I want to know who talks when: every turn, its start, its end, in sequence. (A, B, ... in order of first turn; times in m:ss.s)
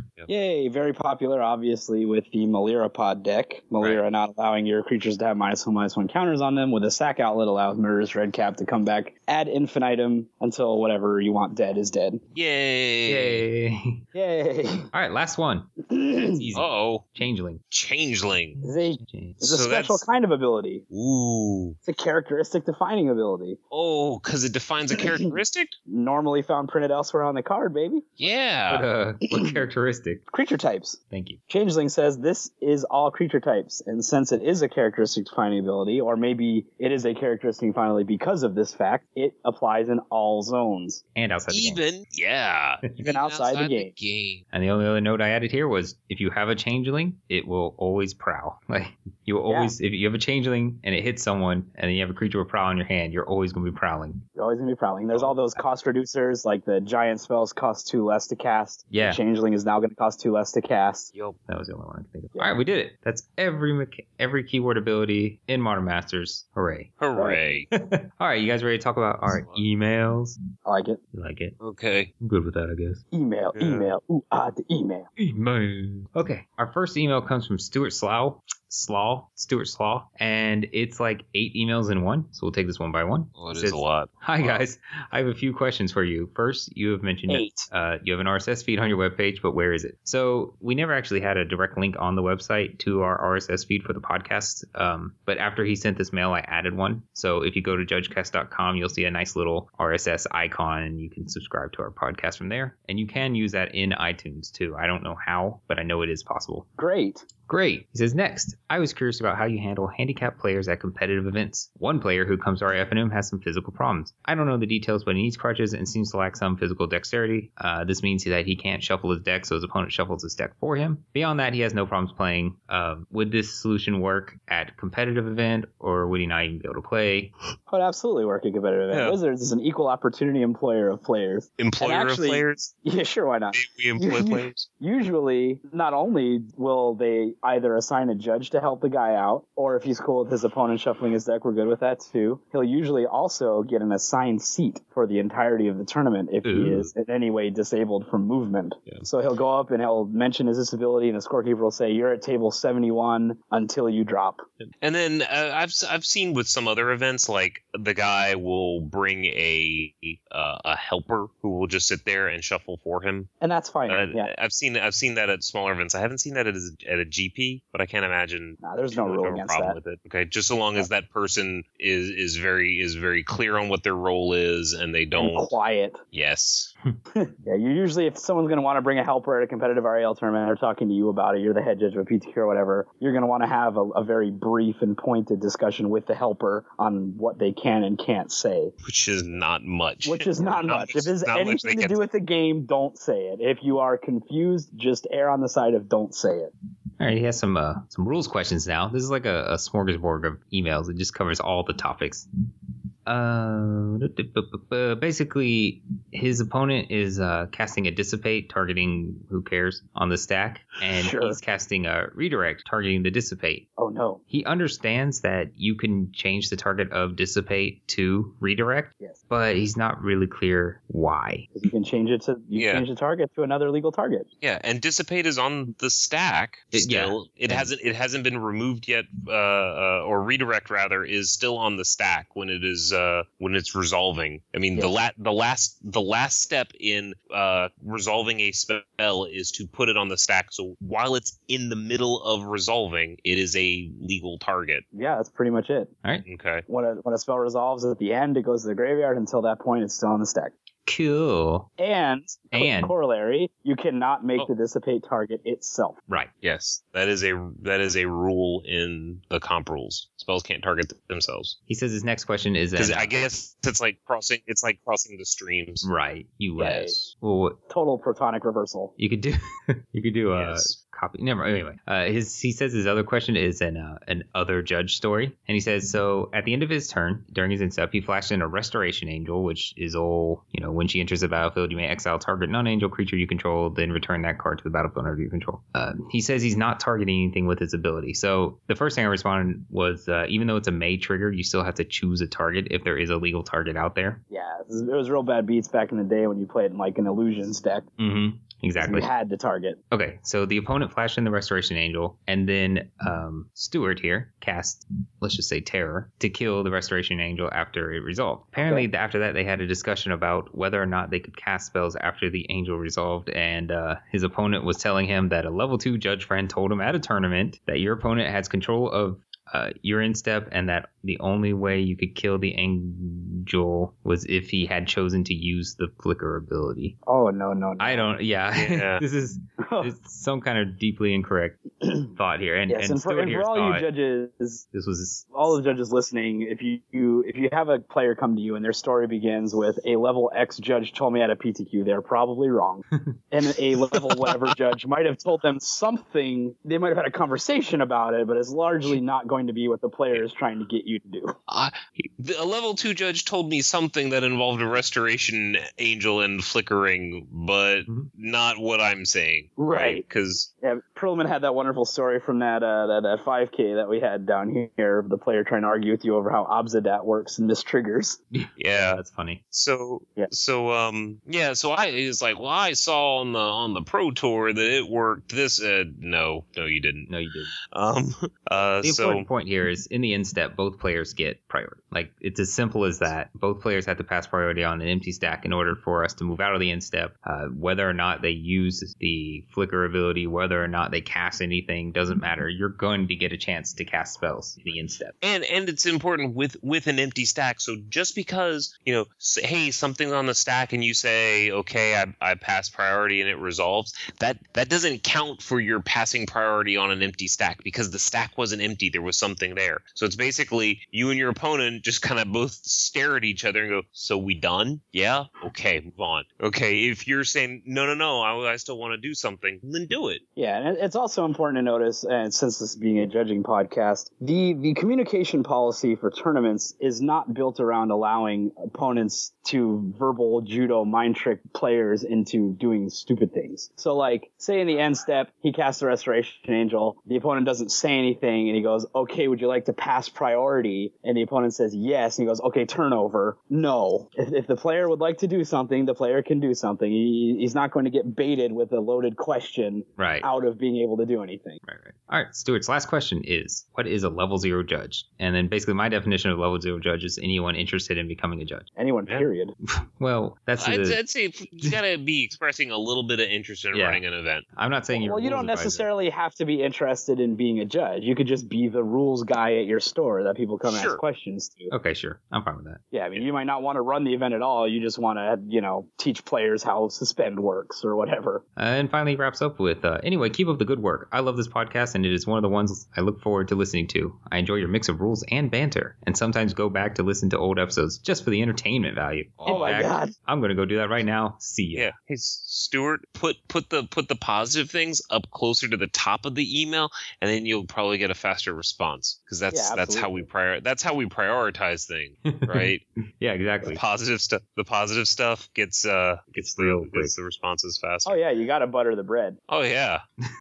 0:00.3-0:12.2 A
0:12.3-0:13.4 B
0:13.1-0:14.0 C
0:14.1-0:14.9 A
0:14.9-0:15.7 C
0:15.9-0:16.4 A
0:16.2-0:17.6 C
0:16.5-0:17.0 B
0:17.7-0:18.6 B
0:18.6-0:20.8 A
0:19.0-0:19.4 C
0:19.4-0:20.0 B
0:20.9-0:21.8 B
0:21.8-0:23.6 A
0:23.7-0:25.7 B
0:25.0-0:25.3 A
0:25.9-0:28.0 A
0:28.2-0:28.8 B
0:28.7-0:30.2 C
0:30.3-0:31.0 A
0:31.1-0:31.4 C
0:31.5-0:41.0 A
0:41.1-0:41.8 C
0:41.5-0:44.4 B
0:43.0-0:43.9 A
0:44.5-0:54.2 C
0:49.5-0:49.7 A
0:54.4-1:01.1 A
0:58.9-0:59.2 C
1:01.5-1:10.4 C
1:02.3-1:02.6 A
1:07.0-1:07.7 B
1:09.2-1:09.6 B
1:10.6-1:11.0 A
1:11.1-1:11.6 C
1:11.6-1:12.1 B
1:12.2-1:13.0 C
1:13.1-1:15.1 A
1:13.5-1:13.9 B
1:15.2-1:46.7 C
1:23.4-1:24.6 B
1:27.3-1:27.7 A
1:46.8-1:47.2 A
1:47.5-2:07.3 C
2:07.7-2:34.4 A
2:08.9-2:09.2 B
2:11.6-2:12.7 B
2:13.5-2:14.6 B
2:26.4-2:26.9 C
2:34.6-2:43.3 B
2:43.4-2:44.3 A
2:43.9-2:55.5 B
2:48.6-2:49.8 A
2:55.2-2:56.0 A
2:56.1-2:56.7 B
2:57.1-3:08.7 A
3:08.8-3:12.0 B
3:10.0-3:16.5 A
3:17.0-3:22.2 C
3:23.0-3:33.6 C
3:31.0-3:31.4 A
3:33.8-3:34.2 A
3:34.3-3:41.5 C
3:41.5-3:44.3 A
3:42.5-3:42.8 B
3:44.4-4:04.8 B
3:46.7-3:47.7 C
4:04.9-4:05.9 A
4:06.2-4:06.6 B
4:06.7-4:10.5 A
4:10.8-4:11.7 C
4:11.8-4:16.0 A
4:12.5-4:12.9 C
4:16.4-4:21.6 B
4:21.7-4:23.1 C
4:22.8-4:25.8 B
4:25.8-4:27.6 C
4:26.6-4:26.9 A
4:27.7-4:28.9 A
4:29.0-4:54.2 C
4:30.3-4:30.8 B
4:54.3-4:57.9 A
4:58.0-4:59.1 C
4:58.8-4:59.8 A
4:59.9-5:27.0 C
5:08.6-5:08.9 A
5:27.0-5:28.0 A
5:27.8-5:33.9 C
5:28.5-5:29.0 B
5:29.6-5:29.9 A
5:31.8-5:32.1 A
5:32.7-5:34.6 A
5:34.7-5:35.4 C
5:35.3-5:51.4 A
5:51.5-6:00.5 B
5:59.6-6:00.0 A
6:00.6-6:08.2 A
6:08.3-6:09.4 C
6:08.6-6:09.0 B
6:09.5-6:17.1 B
6:17.1-6:17.5 C
6:17.7-6:19.3 B
6:18.8-6:35.1 C
6:35.2-7:00.2 B
7:00.4-7:31.6 A
7:30.0-7:30.3 C
7:31.6-7:38.7 C
7:38.8-7:39.5 A
7:39.7-7:41.0 C
7:40.6-7:44.4 B
7:43.7-7:44.0 C
7:44.5-7:45.9 C
7:44.9-7:51.7 A
7:50.6-7:51.0 B
7:51.7-7:52.8 C
7:52.9-7:58.4 A
7:58.6-8:11.9 C
8:09.4-8:09.7 B
8:09.5-8:10.1 A
8:11.7-8:22.8 B
8:19.5-8:20.2 A
8:22.2-8:23.8 C
8:23.6-8:28.2 B
8:26.4-8:27.1 C
8:28.0-8:29.4 A
8:29.5-8:30.0 B